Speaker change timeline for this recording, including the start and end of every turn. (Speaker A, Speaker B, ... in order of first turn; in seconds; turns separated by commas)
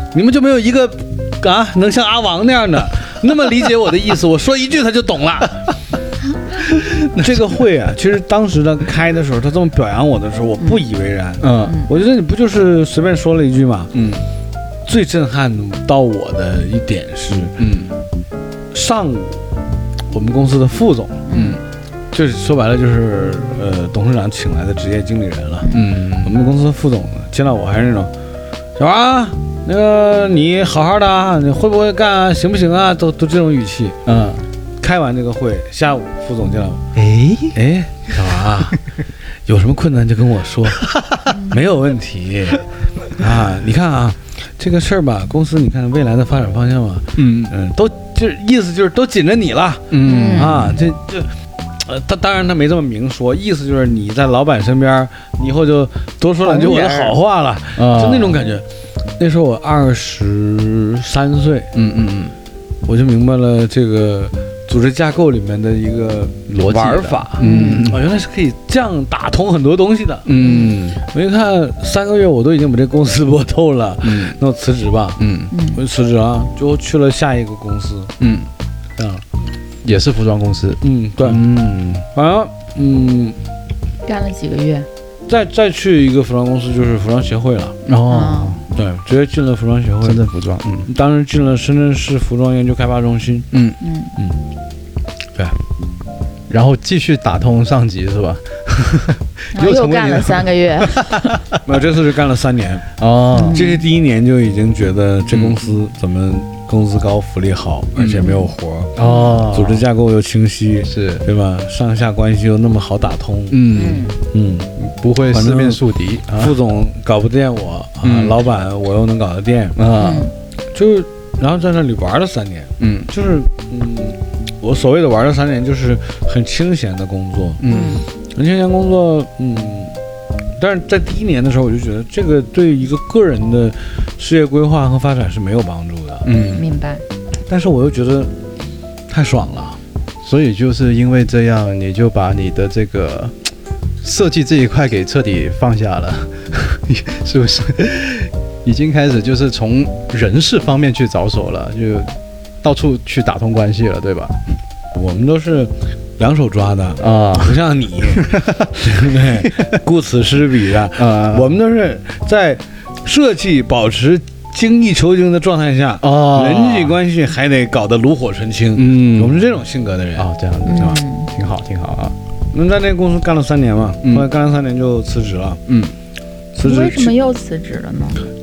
Speaker A: 0.1-5.7, Speaker B: 6.6-7.6, Speaker A: 7.2-13.9, Speaker B: 11.4-11.8, Speaker C: 11.6-11.9, Speaker B: 13.9-14.3, Speaker A: 14.8-17.6, Speaker B: 17.6-17.9, Speaker A: 18.7-19.5, Speaker A: 20.1-21.3, Speaker C: 21.3-21.6, Speaker B: 21.3-21.6, Speaker A: 22.1-28.1, Speaker B: 25.7-26.3, Speaker A: 28.8-34.0, Speaker B: 34.1-34.5, Speaker A: 34.8-36.8, Speaker B: 37.0-37.6, Speaker A: 37.5-38.8, Speaker B: 38.2-38.7, Speaker A: 39.5-40.9, Speaker A: 41.5-58.6, Speaker B: 47.2-47.5, Speaker B: 49.9-50.8, Speaker C: 50.0-50.7, Speaker C: 56.4-57.1, Speaker B: 57.8-58.4, Speaker A: 59.2-61.7, Speaker B: 61.8-62.4, Speaker A: 62.9-70.4, Speaker B: 66.5-68.1, Speaker C: 67.4-67.8, Speaker B: 70.3-71.0, Speaker C: 70.4-70.8, Speaker A: 71.0-78.1, Speaker B: 74.0-74.4, Speaker B: 75.2-75.5, Speaker C: 75.5-75.8, Speaker B: 78.2-78.5, Speaker A: 79.0-79.2, Speaker B: 79.8-82.1, Speaker A: 80.8-81.5, Speaker A: 82.1-83.4, Speaker C: 84.0-84.9, Speaker A: 85.3-87.8, Speaker B: 87.8-88.7, Speaker C: 88.1-88.6, Speaker A: 88.7-90.2, Speaker B: 90.0-90.9, Speaker A: 90.9-93.5, Speaker B: 93.5-93.8, Speaker C: 93.8-94.1, Speaker A: 94.2-94.4, Speaker B: 96.5-101.6, Speaker C: 99.5-101.4, Speaker A: 101.6-102.9, Speaker B: 103.0-103.6, Speaker C: 103.3-103.8, Speaker A: 103.5-108.9, Speaker B: 105.3-105.6, Speaker B: 108.0-108.3, Speaker C: 108.2-109.4, Speaker B: 109.0-109.9, Speaker A: 109.5-113.6, Speaker B: 110.8-111.3, Speaker B: 113.5-114.2, Speaker C: 113.7-114.1, Speaker A: 114.3-114.7, Speaker B: 114.8-116.5, Speaker A: 115.3-119.8, Speaker B: 118.0-118.4, Speaker B: 119.8-120.3, Speaker C: 120.0-120.3, Speaker A: 120.7-127.6, Speaker B: 122.8-123.1, Speaker B: 127.6-128.0, Speaker C: 127.7-128.1, Speaker A: 128.3-130.0, Speaker A: 130.6-136.3, Speaker B: 136.2-136.6, Speaker C: 136.4-137.0, Speaker A: 137.5-138.3, Speaker A: 139.1-139.8, Speaker B: 140.2-143.5, Speaker B: 144.0-154.4, Speaker A: 154.9-171.0, Speaker B: 157.0-157.6, Speaker B: 158.2-159.7, Speaker B: 161.0-161.5, Speaker B: 166.0-167.0, Speaker B: 168.8-169.4, Speaker B: 170.2-172.2, Speaker C: 170.7-171.3, Speaker A: 172.5-175.6, Speaker B: 175.7-175.9, Speaker A: 176.6-177.1, Speaker C: 176.6-178.2